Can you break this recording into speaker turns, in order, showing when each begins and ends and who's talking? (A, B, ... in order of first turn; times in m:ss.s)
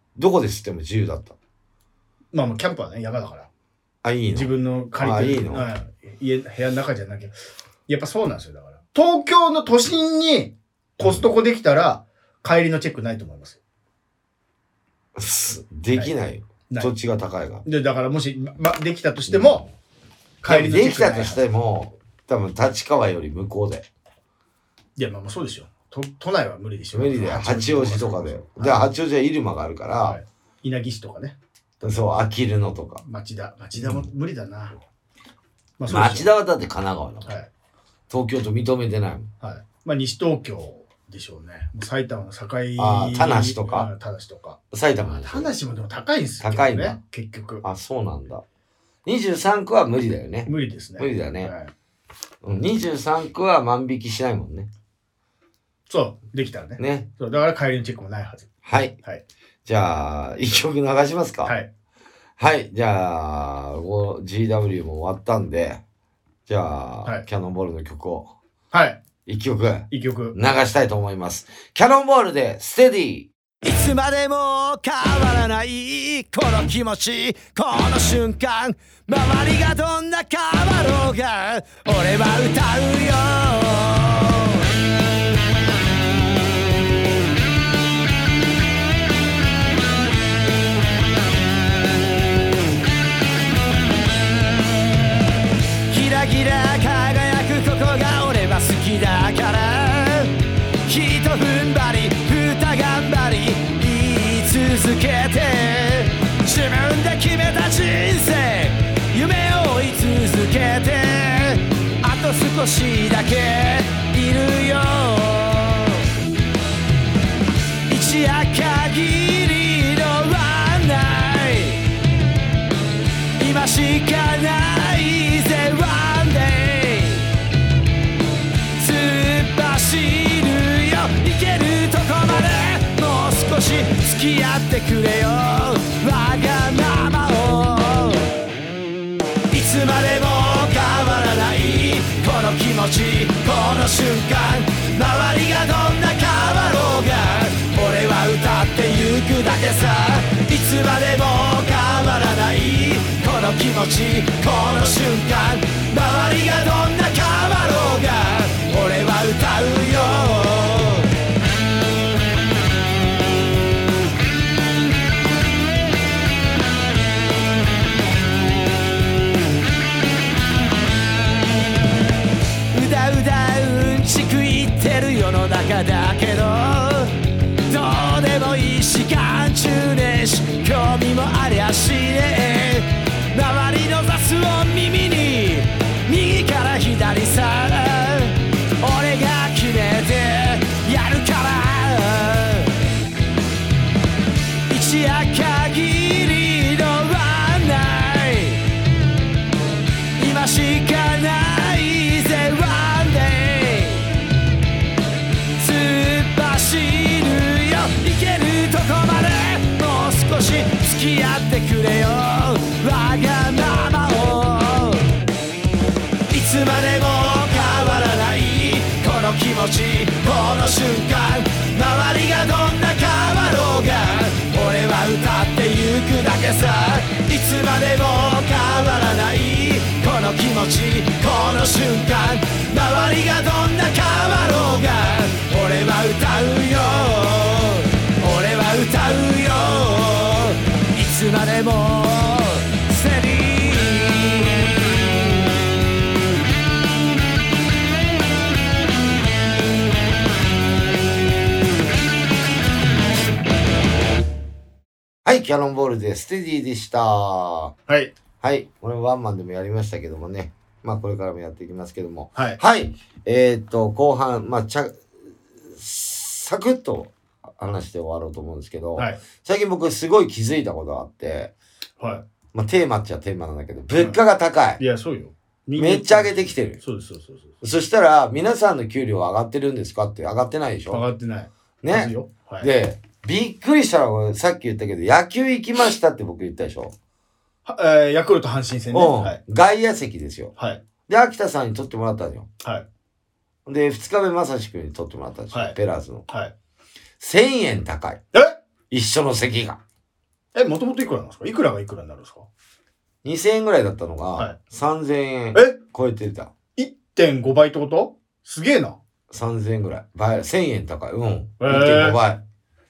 0:00.2-0:01.3 A
0:02.3-0:03.5 B
0:04.0-0:05.6 A
0:04.3-0:07.3 B
0:07.9-0:13.6 B
0:11.0-0:11.2 A
0:15.2-0:17.6 A
0:17.6-0:19.7 B
0:19.3-0:19.7 A
0:20.4-0:21.4 B
0:20.4-0:23.8 A
0:25.0-0:28.9 B
0:26.9-0:30.2 A
0:30.0-0:31.4 B
0:31.8-0:33.0 A
0:33.0-0:34.8 B
0:33.8-0:34.0 A
0:35.8-0:36.3 B
0:35.9-0:37.3 A
0:38.1-0:39.3 A
0:39.4-0:47.6 B
0:42.8-0:43.9 A
0:44.7-0:45.5 A
0:46.4-0:47.0 A
0:47.6-0:48.4 A
0:49.0-0:51.5 A
0:50.4-0:51.7 B
0:52.4-0:54.7 A
0:55.9-0:58.5 B
0:56.8-0:57.1 A
0:58.6-0:59.0 A
0:59.6-1:01.5 A
1:02.4-1:05.8 A
1:06.5-1:08.3 A
1:08.7-1:09.0 B
1:09.2-1:13.3 A
1:09.9-1:10.4 B
1:13.6-1:24.7 C
1:35.9-1:56.1 C
1:57.9-2:01.8 C
2:03.4-2:07.3 C
2:08.8-2:18.3 C
2:19.5-2:41.1 C
2:52.7-3:12.8 C
3:14.7-3:18.6 C
3:20.2-3:24.1 C
3:25.6-3:35.1 C
3:36.3-4:04.7 C
4:15.2-4:17.7 A
4:17.9-4:18.1 B
4:18.4-4:25.0 A
4:22.3-4:22.6 B
4:25.6-4:31.5 A
4:32.0-4:32.2 B
4:32.5-4:34.8 A
4:34.8-4:37.5 B
4:35.8-4:36.8 A
4:37.6-4:41.0 A
4:40.9-4:42.7 B
4:41.8-4:46.9 A
4:47.6-4:49.4 B
4:48.9-4:50.5 A
4:50.6-4:50.8 B
4:51.1-4:52.5 A
4:53.6-4:56.2 A
4:57.2-4:58.2 A
4:58.3-4:58.6 B
4:58.9-4:59.8 A
5:00.5-5:02.5 B
5:03.2-5:06.5 A
5:06.8-5:09.0 B
5:09.3-5:12.4 A
5:11.6-5:12.2 B